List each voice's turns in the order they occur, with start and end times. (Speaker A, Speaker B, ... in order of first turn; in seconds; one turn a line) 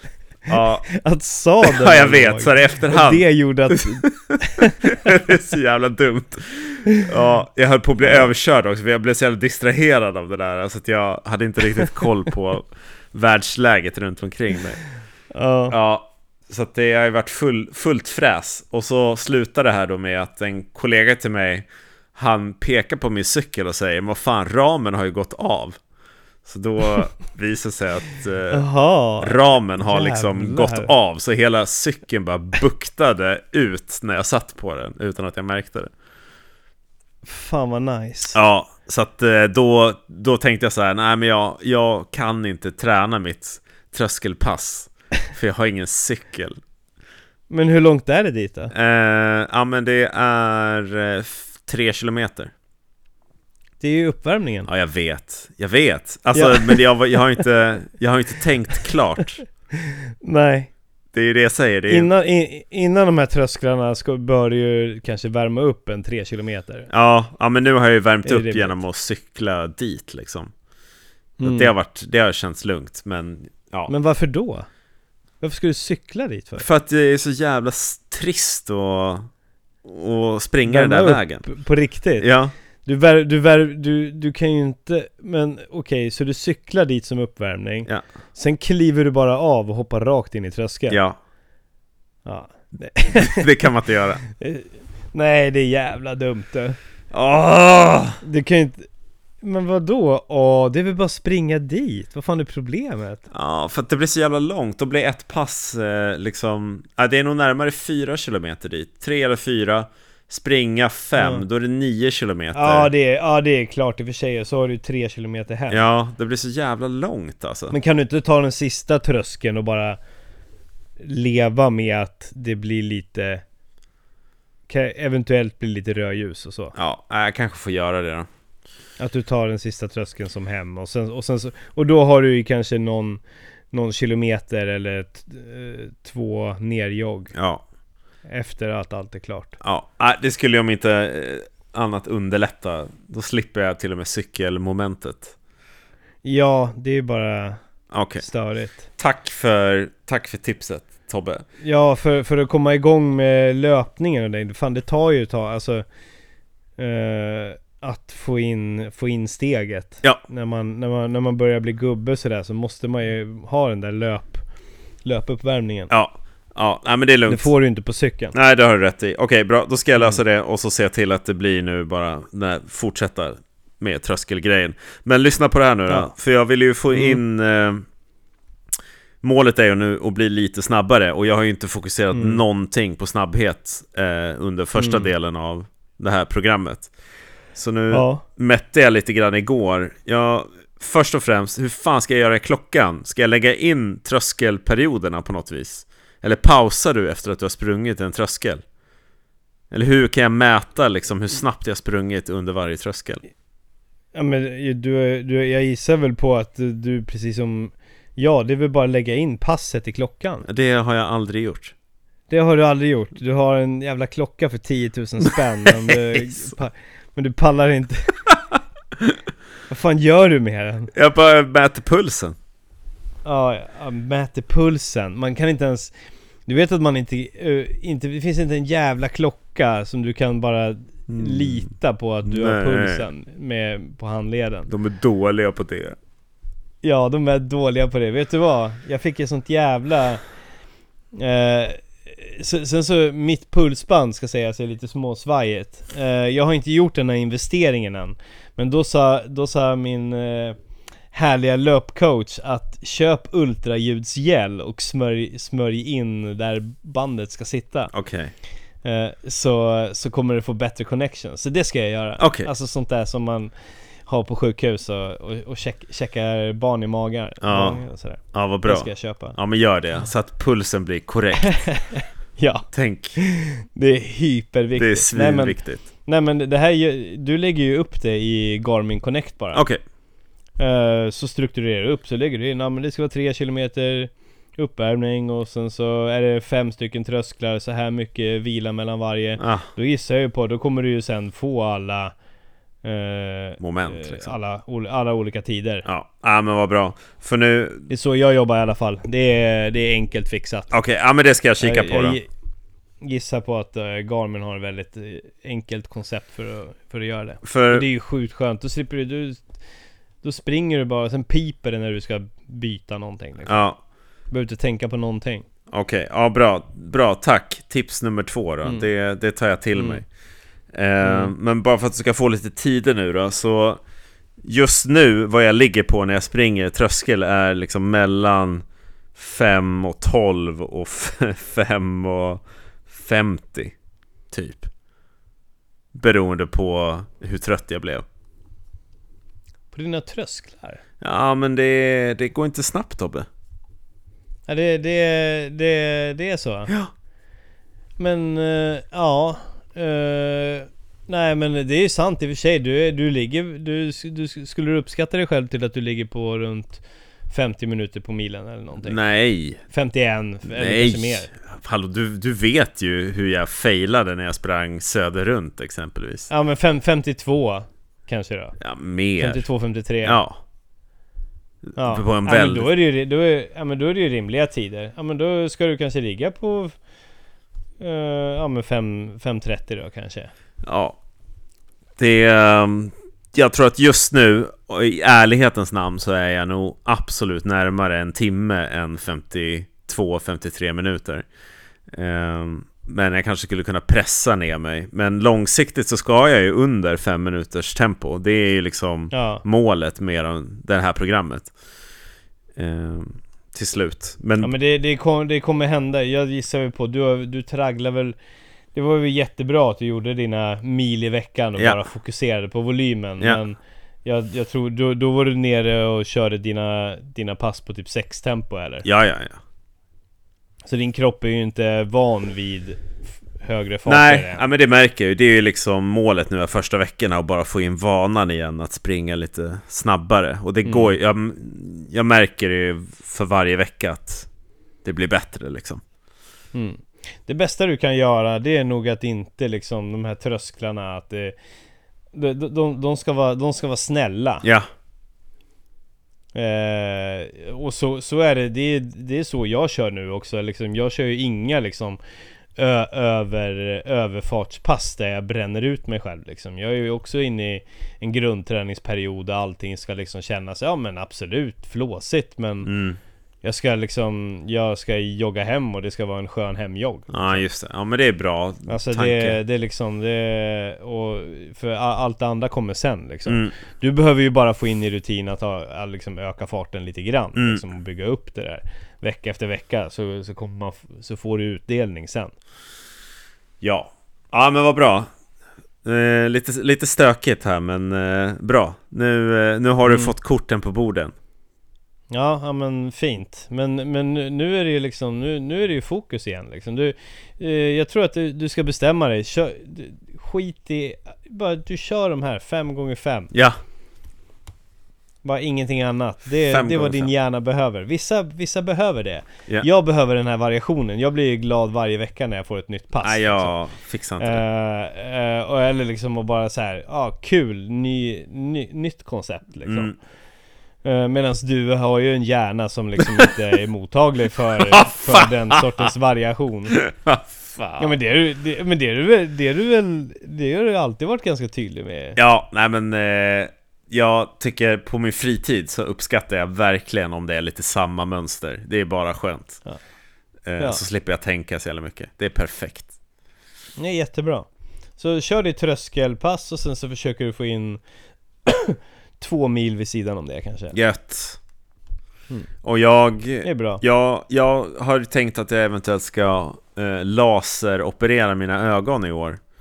Speaker A: 0.5-0.9
Speaker B: 0.9-5.0
Speaker A: 1.6-14.8
Speaker B: 15.3-15.8
Speaker A: 15.7-25.8
Speaker A: 26.4-28.6
Speaker B: 28.5-30.9
Speaker A: 29.2-35.9
Speaker B: 37.2-38.4
Speaker A: 38.3-46.6
Speaker B: 47.5-48.7
Speaker A: 48.7-52.5
Speaker B: 53.8-54.7
Speaker A: 54.7-59.4
Speaker B: 56.3-56.8
Speaker B: 59.8-60.7
Speaker A: 61.1-62.1
Speaker B: 61.9-66.9
Speaker A: 66.9-70.5
Speaker B: 68.2-68.8
Speaker B: 71.4-71.7
Speaker A: 71.4-73.9
Speaker B: 73.9-74.7
Speaker B: 75.4-76.7
Speaker A: 76.6-79.3
Speaker A: 79.8-81.5
Speaker B: 80.7-82.3
Speaker A: 82.2-82.5
Speaker B: 82.8-91.0
Speaker A: 90.9-91.2
Speaker B: 92.2-93.7
Speaker A: 93.2-94.2
Speaker B: 94.3-96.8
Speaker A: 97.1-98.2
Speaker B: 98.2-98.9
Speaker B: 99.4-103.2
Speaker A: 103.3-112.9
Speaker B: 111.2-111.4
Speaker B: 112.5-115.9
Speaker A: 115.7-117.8
Speaker B: 117.7-120.0
Speaker B: 121.0-123.4
Speaker B: 124.7-126.8
Speaker A: 126.8-128.3
Speaker B: 129.0-137.3
Speaker A: 137.3-137.6
Speaker B: 138.3-139.6
Speaker A: 139.6-145.3
Speaker B: 146.2-147.6
Speaker A: 147.9-148.2
Speaker B: 148.2-148.9
Speaker A: 149.0-151.4
Speaker B: 151.6-155.8
Speaker B: 156.8-164.4
Speaker B: 165.1-165.9
Speaker A: 165.9-167.5
Speaker B: 167.3-168.3
Speaker A: 168.3-177.8
Speaker B: 176.9-177.2
Speaker A: 179.2-186.9
Speaker B: 182.1-182.4
Speaker B: 184.8-185.1
Speaker A: 187.6-198.6
Speaker B: 187.9-188.2
Speaker A: 199.7-203.2
Speaker B: 204.2-210.5
Speaker A: 210.5-211.7
Speaker B: 212.3-218.2
Speaker A: 215.7-216.5
Speaker B: 219.7-220.9
Speaker A: 220.9-222.4
Speaker B: 223.2-225.9
Speaker B: 226.5-234.7
Speaker A: 231.1-231.7
Speaker A: 232.2-233.1
Speaker A: 234.7-236.0
Speaker B: 236.8-240.2
Speaker B: 241.1-250.6
Speaker B: 251.1-257.9
Speaker A: 257.9-258.3
Speaker B: 258.8-263.5
Speaker A: 262.2-262.5
Speaker B: 264.1-269.4
Speaker A: 267.4-267.8
Speaker A: 268.3-271.6
Speaker B: 271.4-279.6
Speaker A: 272.7-273.2
Speaker A: 274.8-275.8
Speaker A: 279.5-279.8
Speaker B: 280.6-292.1
Speaker A: 289.4-289.7
Speaker B: 292.8-295.9
Speaker A: 293.6-294.3
Speaker A: 295.9-297.9
Speaker B: 297.9-300.8
Speaker A: 300.7-302.2
Speaker B: 301.6-302.3
Speaker B: 303.0-309.5
Speaker A: 307.4-307.9
Speaker B: 310.2-313.7
Speaker A: 313.5-313.8
Speaker B: 314.3-315.5
Speaker A: 315.7-320.1
Speaker B: 319.8-320.0
Speaker A: 320.7-323.8
Speaker B: 321.0-321.3
Speaker A: 324.4-328.6
Speaker A: 329.1-333.7
Speaker A: 334.3-334.7
Speaker A: 335.9-338.1
Speaker B: 339.7-340.8
Speaker A: 341.0-343.3
Speaker B: 344.5-346.7
Speaker B: 348.0-359.0
Speaker A: 358.8-359.6
Speaker B: 359.7-361.3
Speaker A: 360.5-366.3
Speaker B: 366.3-368.6
Speaker A: 368.6-369.4
Speaker B: 369.2-370.2
Speaker A: 370.0-370.4
Speaker A: 371.7-372.7
Speaker B: 371.8-376.7
Speaker B: 377.8-380.3
Speaker A: 380.6-381.0
Speaker A: 382.0-391.2
Speaker A: 391.9-401.5
Speaker B: 399.1-399.4
Speaker A: 402.6-404.5
Speaker B: 404.4-408.1
Speaker B: 408.7-418.9
Speaker A: 418.9-419.4
Speaker B: 420.7-422.8
Speaker B: 423.4-424.4
Speaker A: 423.9-434.3
Speaker B: 430.6-430.9
Speaker A: 434.8-435.8
Speaker B: 436.5-441.4
Speaker B: 442.1-444.4
Speaker A: 444.4-444.7
Speaker B: 446.3-452.0
Speaker B: 452.6-462.7
Speaker A: 462.6-463.0
Speaker B: 463.4-467.4
Speaker A: 467.1-469.4
Speaker B: 468.7-482.3
Speaker A: 473.3-473.5
Speaker A: 477.4-477.6
Speaker A: 483.6-485.1
Speaker A: 485.8-491.1
Speaker B: 489.9-490.1
Speaker B: 492.1-503.3
Speaker A: 503.3-503.6
Speaker B: 505.2-513.5
Speaker A: 506.5-507.1
Speaker A: 513.0-514.4
Speaker B: 514.2-519.9
Speaker A: 519.7-520.0
Speaker B: 520.8-526.8
Speaker A: 524.6-525.6
Speaker A: 526.7-527.9
Speaker B: 527.8-532.2
Speaker A: 532.2-539.6
Speaker A: 540.5-542.9
Speaker B: 543.8-547.8
Speaker B: 548.5-550.8
Speaker A: 550.7-551.4
Speaker A: 552.6-559.4
Speaker B: 553.4-553.8